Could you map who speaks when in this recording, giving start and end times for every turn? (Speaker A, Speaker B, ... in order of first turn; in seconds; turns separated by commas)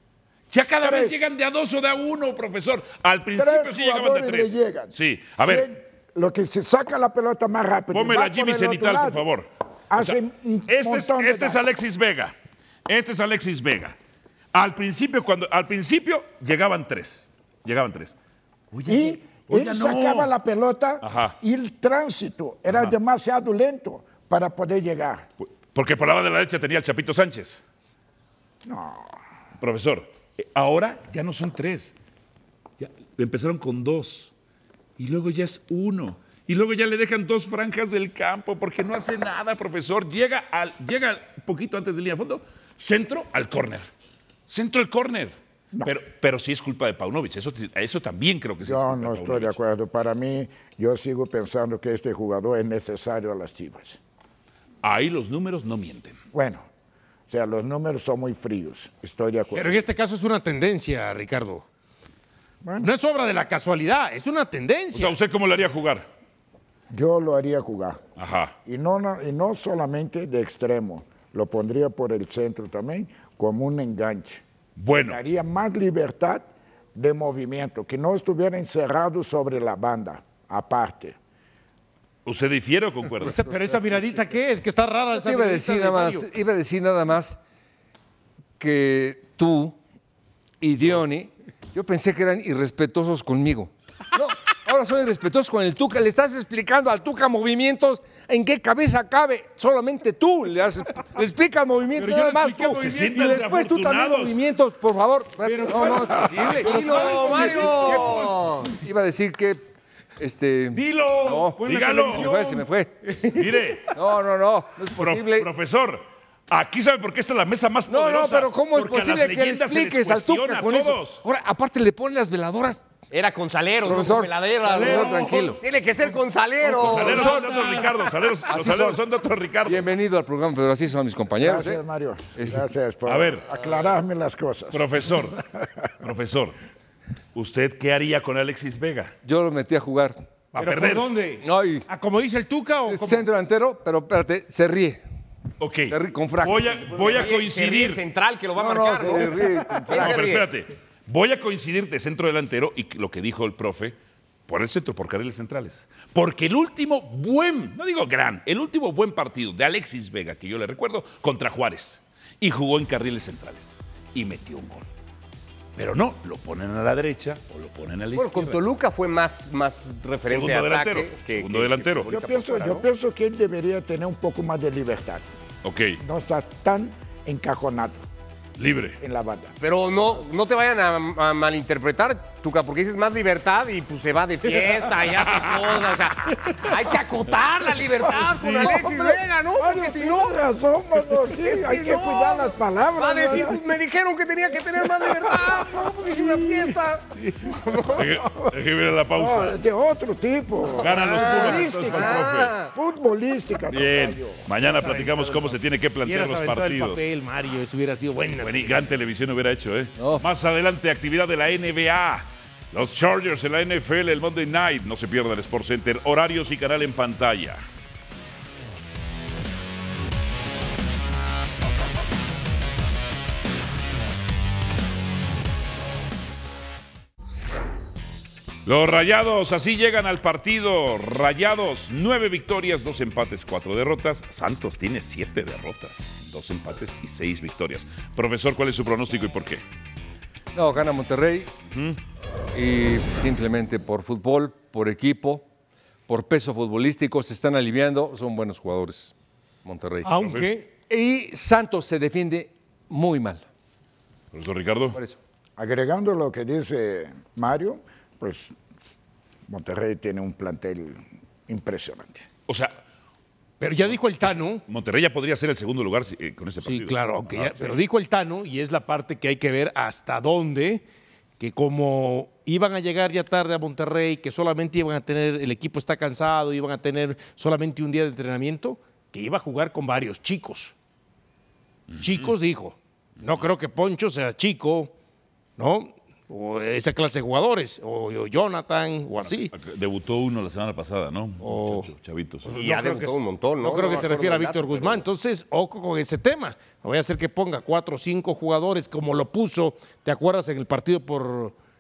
Speaker A: 0.5-5.7, Speaker B: 0.8-1.3, Speaker B: 3.3-9.2, Speaker A: 7.9-12.3, Speaker B: 9.9-11.6, Speaker A: 12.9-13.9, Speaker A: 14.5-18.1, Speaker A: 18.7-20.3, Speaker B: 18.9-25.2, Speaker A: 21.0-21.4, Speaker A: 22.7-22.9, Speaker A: 25.4-27.6, Speaker B: 28.6-29.2, Speaker A: 29.6-31.9, Speaker A: 32.8-34.3, Speaker A: 35.0-43.9, Speaker A: 44.5-49.5, Speaker B: 48.6-54.0, Speaker A: 54.8-56.2, Speaker B: 56.3-56.7, Speaker B: 57.3-59.8, Speaker C: 59.5-61.6, Speaker B: 62.6-62.9, Speaker C: 62.8-65.2, Speaker A: 64.9-66.1, Speaker B: 66.9-68.0, Speaker A: 68.2-68.5, Speaker B: 68.6-74.4, Speaker A: 74.8-75.2, Speaker B: 75.0-81.2, Speaker A: 82.2-83.4, Speaker C: 83.2-86.3, Speaker D: 85.1-87.4, Speaker D: 88.6-89.8, Speaker D: 90.6-109.6, Speaker C: 102.0-103.5, Speaker A: 102.8-104.4, Speaker C: 105.4-108.3, Speaker E: 106.6-108.6, Speaker D: 110.2-112.9, Speaker C: 110.7-113.7, Speaker A: 111.6-112.3, Speaker A: 113.3-114.0, Speaker D: 113.9-115.5, Speaker A: 114.9-121.2, Speaker D: 117.9-122.8, Speaker E: 123.1-127.7, Speaker D: 123.8-125.6, Speaker C: 124.7-125.6, Speaker A: 126.6-129.9, Speaker C: 127.0-127.9, Speaker D: 128.5-129.0, Speaker D: 129.6-131.8, Speaker B: 131.4-134.8, Speaker D: 132.4-132.6, Speaker A: 133.1-133.4, Speaker A: 134.7-135.4, Speaker A: 136.0-136.6, Speaker A: 137.3-139.1, Speaker D: 139.2-140.2, Speaker A: 140.5-141.1, Speaker C: 140.6-143.3, Speaker D: 141.4-141.8, Speaker D: 142.8-145.0, Speaker A: 145.6-148.0, Speaker D: 145.9-146.8, Speaker E: 146.9-150.4, Speaker D: 148.6-150.3, Speaker A: 149.9-153.9, Speaker A: 154.5-164.8, Speaker A: 165.8-168.6, Speaker E: 168.1-172.9, Speaker A: 170.2-172.1, Speaker B: 172.1-175.2, Speaker A: 175.6-176.0, Speaker B: 176.0-178.0, Speaker A: 178.6-179.0, Speaker B: 179.0-179.5, Speaker E: 179.6-190.3, Speaker B: 188.2-193.6, Speaker E: 191.3-198.0, Speaker B: 195.4-196.7, Speaker A: 197.9-199.6, Speaker B: 199.1-204.4, Speaker A: 200.7-202.5, Speaker E: 200.9-202.7, Speaker A: 203.7-207.0, Speaker C: 204.6-208.9, Speaker A: 208.4-217.6, Speaker D: 210.0-210.2, Speaker A: 228.6-239.6, Speaker D: 240.5-241.5, Speaker A: 241.7-242.0, Speaker D: 242.5-245.4, Speaker D: 246.1-250.1, Speaker C: 250.0-250.7, Speaker A: 250.2-250.5, Speaker D: 250.9-253.4, Speaker A: 254.3-255.0, Speaker B: 255.6-258.6, Speaker B: 259.5-262.2, Speaker A: 262.5-262.8, Speaker C: 263.6-264.6, Speaker A: 264.2-267.8, Speaker C: 266.6-270.8, Speaker C: 271.4-280.7, Speaker A: 281.9-282.3, Speaker C: 282.0-284.9, Speaker A: 283.2-283.5, Speaker C: 285.6-289.5, Speaker A: 289.2-292.5, Speaker C: 291.4-291.9, Speaker C: 292.4-301.5, Speaker E: 292.5-295.0